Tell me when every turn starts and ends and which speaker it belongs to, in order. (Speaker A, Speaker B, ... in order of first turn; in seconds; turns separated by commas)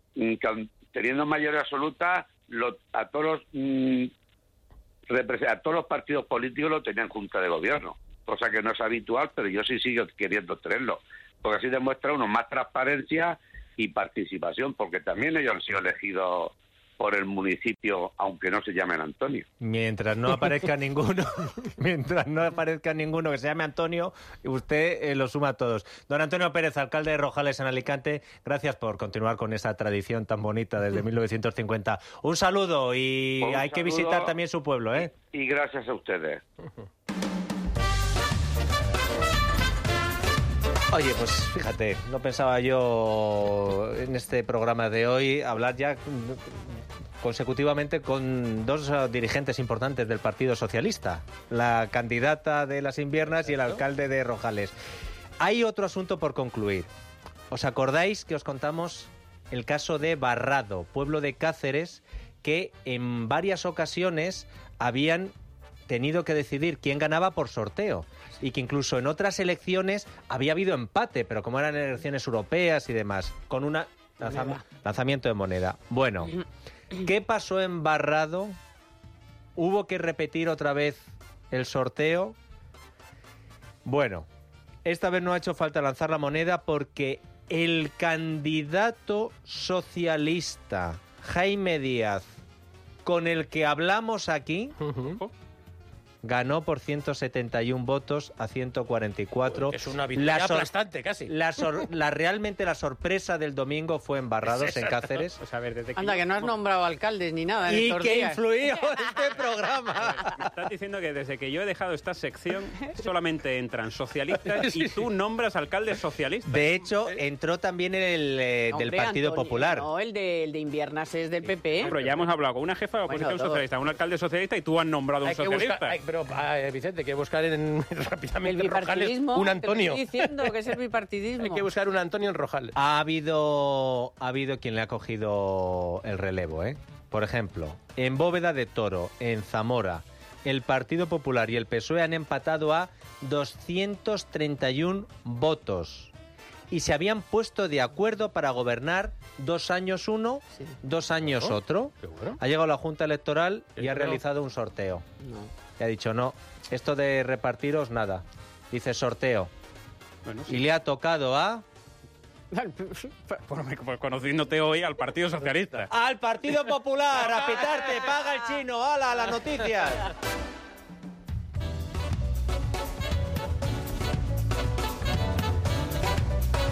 Speaker A: 0.2-4.1, Speaker A: 5.1-19.4, Speaker B: 19.6-35.1, Speaker A: 33.4-34.4, Speaker A: 34.9-36.4, Speaker B: 40.9-54.7, Speaker B: 55.4-56.9, Speaker B: 57.5-65.3, Speaker B: 65.9-76.3, Speaker B: 77.0-78.5, Speaker B: 79.5-82.3, Speaker B: 83.8-84.3, Speaker B: 84.8-92.2, Speaker B: 93.0-94.8, Speaker C: 94.8-95.2, Speaker B: 96.2-100.7, Speaker C: 99.5-101.3, Speaker B: 101.3-105.4, Speaker C: 104.5-105.2, Speaker D: 105.4-106.5, Speaker E: 106.0-108.4, Speaker B: 107.7-110.5, Speaker D: 110.3-116.6, Speaker C: 114.5-114.9, Speaker B: 116.5-119.9, Speaker E: 118.7-121.9, Speaker D: 121.8-125.9, Speaker C: 121.8-122.2, Speaker E: 123.1-123.6, Speaker C: 125.2-130.5, Speaker E: 128.4-131.7, Speaker C: 131.4-132.7, Speaker B: 132.8-146.1, Speaker B: 146.7-155.0, Speaker C: 151.2-152.4, Speaker C: 153.8-154.2, Speaker E: 155.2-155.5, Speaker B: 155.8-159.5, Speaker D: 160.2-160.6, Speaker B: 160.5-161.6, Speaker E: 162.5-163.4, Speaker D: 163.5-165.9, Speaker B: 165.9-170.1